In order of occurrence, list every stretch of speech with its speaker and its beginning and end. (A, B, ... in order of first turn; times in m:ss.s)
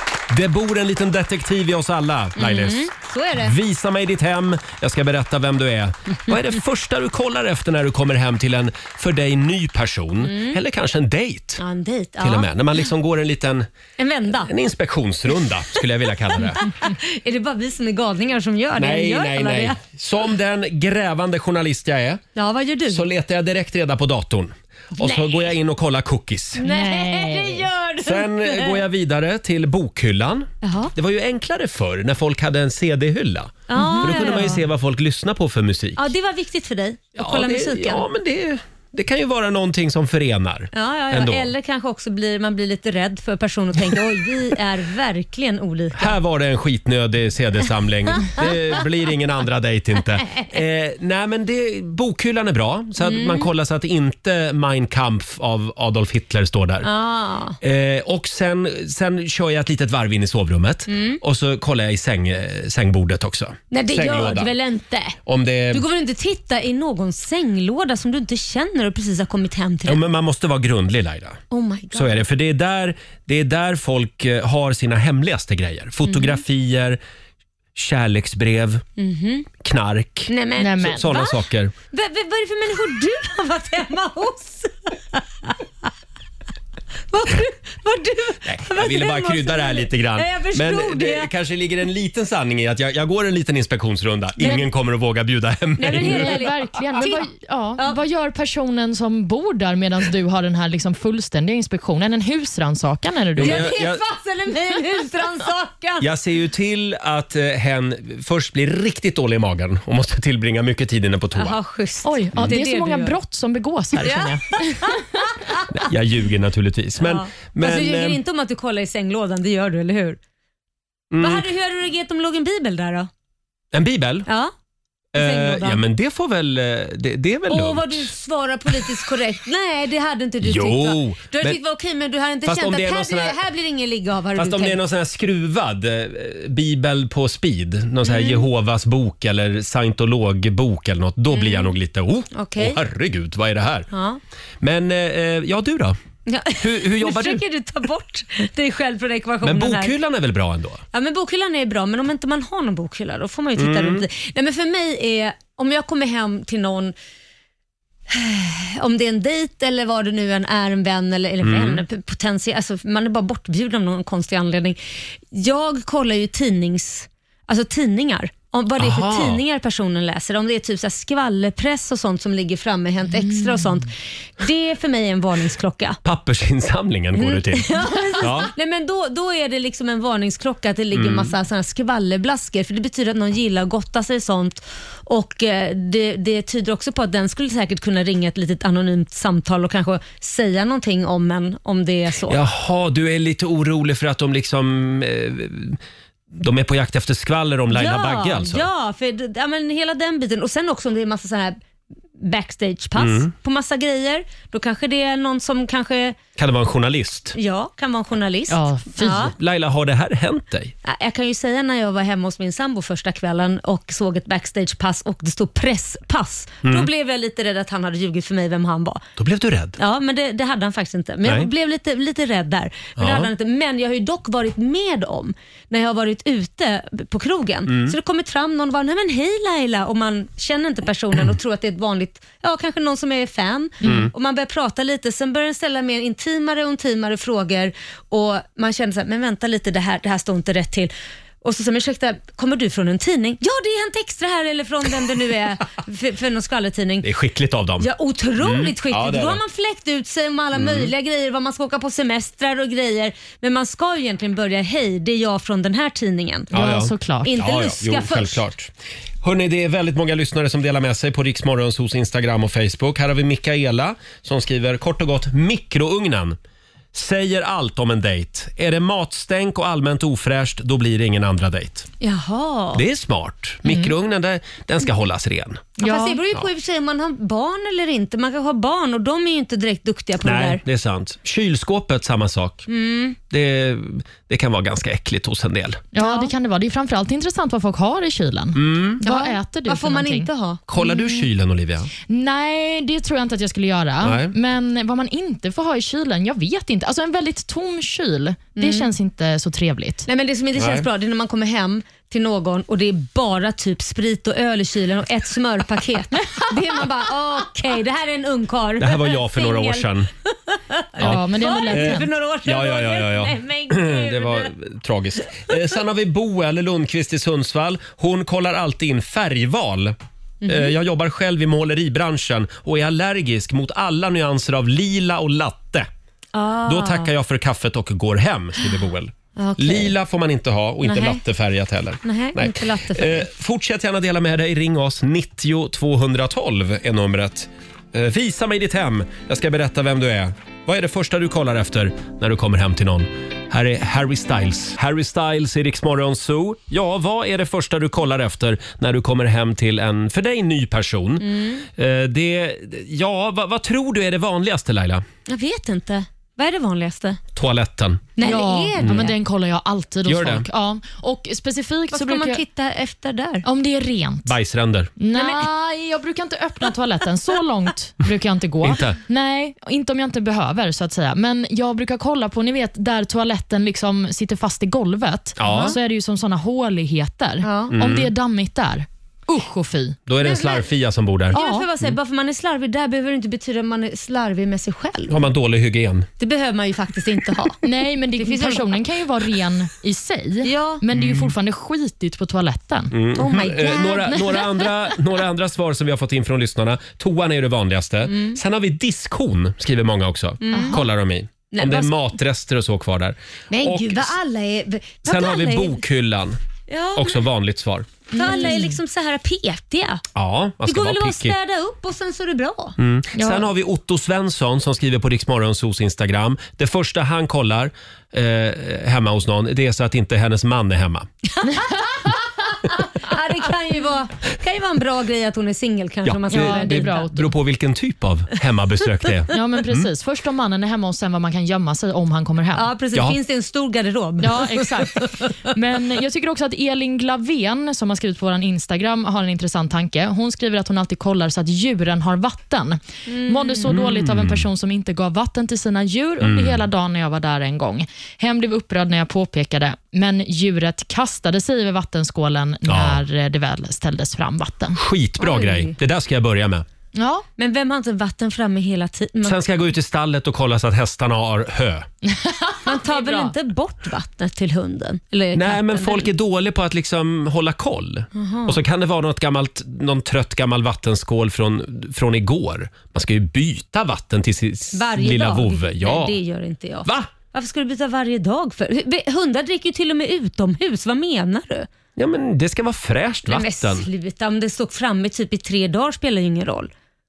0:00.3-0:11.6 A
0:02.4-0:03.6 B
0:10.2-0:10.6 B
0:11.6-0:12.5 B
0:12.2-0:13.7 A
0:14.0-0:14.5 B
0:14.3-0:16.7 A
0:16.3-0:19.8 B
0:18.8-0:22.2 A
0:22.4-0:23.1 B
0:22.9-0:26.6 A
0:25.0-0:25.5 B
0:26.6-0:28.8 B
0:26.6-0:27.7 C
0:28.0-0:36.1 A
0:30.6-0:30.9 B
0:33.7-0:34.6 B
0:33.8-0:34.6 C
0:36.0-0:38.1 B
0:37.2-0:41.5 A
0:40.7-0:46.2 B
0:46.0-0:56.9 A
0:48.2-0:48.5 B
0:53.0-0:53.5 B
0:56.8-0:57.6 B
0:57.6-1:04.5 A
1:00.9-1:01.2 B
1:03.7-1:05.2 B
1:05.3-1:05.8 A
1:05.7-1:10.0 B
1:09.9-1:11.4 A
1:11.5-1:12.2 B
1:11.9-1:17.0 A
1:16.0-1:16.4 B
1:17.8-1:18.8 A
1:19.0-1:19.5 B
1:19.6-1:21.7 A
1:20.3-1:21.4 B
1:20.6-1:21.0 C
1:21.9-1:25.9 B
1:27.1-1:31.3 B
1:28.4-1:36.4 A
1:34.4-1:34.7 B
1:35.8-1:38.0 B
1:35.9-1:43.7 C
1:43.4-1:44.0 A
1:43.4-1:46.1 B
1:46.0-1:51.6 A
1:51.4-1:53.2 B
1:52.0-1:55.0 C
1:54.0-1:55.7 B
1:55.7-1:58.2 A
1:57.0-2:00.2 B
2:01.1-2:01.5 A
2:01.2-2:03.1 B
2:03.7-2:04.3 A
2:04.3-2:04.5 B
2:05.2-2:05.8 B
2:05.2-2:08.1 A
2:07.5-2:14.8 B
2:10.4-2:11.6 A
2:12.4-2:13.4 A
2:14.4-2:23.9 A
2:18.0-2:18.5 B
2:21.3-2:21.7 B
2:22.3-2:22.8 B
2:23.9-2:24.2 B
2:24.6-2:26.0 A
2:26.3-2:30.0 B
2:26.6-2:27.4 A
2:29.4-2:30.8 A
2:30.9-2:37.0 B
2:33.6-2:34.1 A
2:38.1-2:56.0 B
2:41.4-2:41.8 A
2:48.8-2:49.4 A
2:56.0-2:58.5 A
2:57.2-3:12.4 B
3:00.9-3:01.3 A
3:12.3-3:15.8 A
3:16.4-3:18.7 A
3:17.7-3:21.6 B
3:22.2-3:26.2 B
3:23.0-3:23.3 A
3:26.4-3:27.4 A
3:27.3-3:29.4 B
3:28.5-3:29.3 C
3:29.4-3:30.7 A
3:30.8-3:39.0 B
3:36.6-3:36.9 A
3:39.2-3:39.8 A
3:39.8-4:07.1 B
3:41.2-3:41.5 A
3:43.0-3:43.3 A
3:47.7-3:48.0 A
3:53.8-3:54.1 A
4:07.0-4:07.9 A
4:07.8-4:16.6 B
4:08.4-4:09.4 A
4:10.5-4:10.9 A
4:16.5-4:26.4 A
4:16.5-4:17.3 C
4:17.2-4:18.4 B
4:26.9-4:31.9 A
4:32.0-4:32.8 B
4:32.7-4:35.7 A
4:33.7-4:33.9 C
4:35.8-4:36.2 C
4:35.8-4:40.6 B
4:40.2-4:42.6 A
4:42.7-4:43.2 B
4:43.3-4:45.8 A
4:45.9-4:51.2 C
4:46.0-4:46.3 B
4:48.6-4:49.0 A
4:49.0-4:50.6 B
4:50.7-4:51.9 A
4:52.1-5:00.1 C
4:54.0-4:54.3 A
4:58.6-4:58.9 B
5:00.1-5:14.5 B
5:00.6-5:00.9 A
5:08.8-5:10.1 A
5:11.0-5:20.0 A
5:11.0-5:12.1 C
5:20.4-5:20.7 B
5:20.5-5:25.9 A
5:26.3-5:27.1 B
5:26.7-5:55.0 A
5:29.4-5:30.0 B
5:30.8-5:31.2 B
5:32.0-5:33.3 B
5:51.2-5:51.7 B
5:55.3-5:57.2 B
5:57.4-5:58.2 A
5:58.2-5:59.2 B
5:58.2-6:02.4 C
5:58.8-5:59.0 A
6:00.1-6:00.5 A
6:01.9-6:03.5 B
6:03.4-6:04.3 C
6:04.3-6:04.9 A
6:05.0-6:20.0 C
6:05.1-6:05.5 B
6:08.6-6:09.0 A
6:15.4-6:15.8 A
6:17.4-6:17.8 B
6:17.7-6:18.1 A
6:20.1-6:21.9 A
6:20.2-6:20.7 B
6:21.3-6:25.2 B
6:21.3-6:21.7 C
6:25.1-6:26.1 A
6:26.2-6:27.6 B
6:27.6-6:32.9 C
6:28.2-6:28.8 B
6:30.4-6:30.8 B
6:30.9-6:31.3 A
6:32.9-6:44.2 A
6:33.2-6:34.5 B
6:38.0-6:38.4 B
6:40.4-6:40.8 B
6:40.5-6:40.8 C
6:41.5-6:42.0 B
6:43.5-6:45.8 B
6:45.0-6:46.4 A
6:46.7-6:47.2 B
6:47.0-6:48.1 A
6:48.1-6:50.0 B
6:48.1-6:48.7 C
6:50.2-6:51.4 A
6:50.6-6:52.8 B
6:52.8-7:01.1 A
6:53.2-6:53.5 C
7:01.3-7:07.0 B
7:06.0-7:09.9 A
7:06.3-7:07.3 C
7:09.3-7:12.7 C
7:12.5-7:15.3 B
7:14.2-7:34.8 C
7:23.1-7:23.8 B
7:23.7-7:24.5 A
7:26.2-7:26.6 A
7:32.7-7:33.0 A
7:34.8-7:36.6 A
7:35.2-7:35.8 B
7:37.0-7:37.2 C
7:37.4-7:39.4 B
7:39.2-7:41.9 A
7:42.1-7:43.3 C
7:42.6-7:46.1 B
7:45.3-7:56.2 A
7:48.1-7:48.6 B
7:54.7-8:01.7 B
7:56.8-7:57.1 A
8:02.0-8:03.9 A
8:03.3-8:06.7 B